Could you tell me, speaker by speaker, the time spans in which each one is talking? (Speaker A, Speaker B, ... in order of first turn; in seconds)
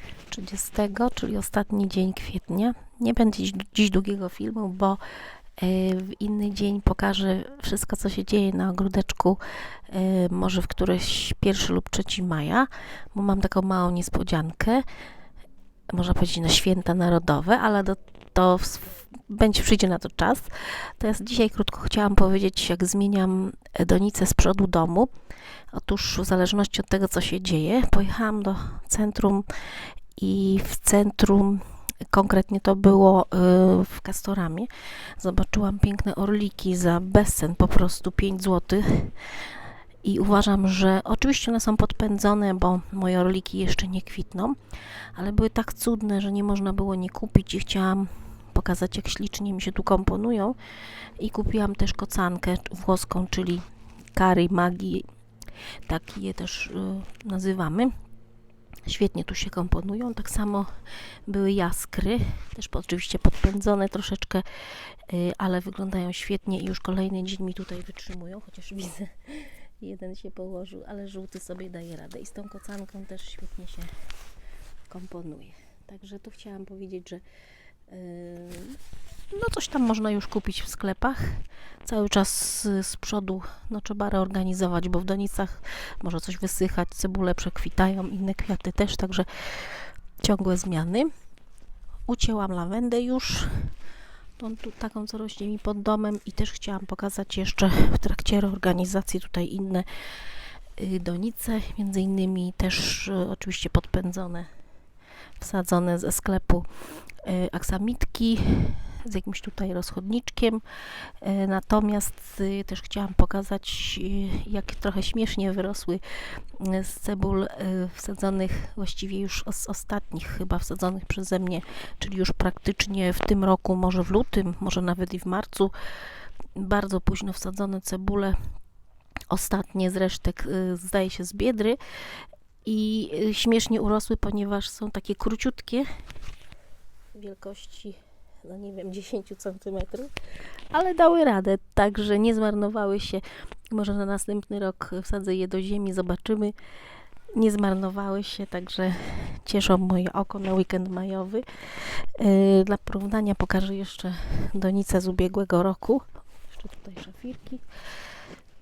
Speaker A: 0.3-5.0, 5.6-14.8, 15.9-25.1, 25.7-29.5, 30.2-44.6, 45.1-50.6, 51.2-55.0, 55.9-57.9, 58.9-60.7, 61.3-64.5, 65.0-73.9, 74.9-77.2, 77.9-78.8, 79.3-91.1, 92.1-93.7, 94.4-104.5, 105.4-125.7, 126.5-128.4, 129.3-131.8, 132.6-135.9, 137.1-140.1, 140.7-146.6, 147.3-157.6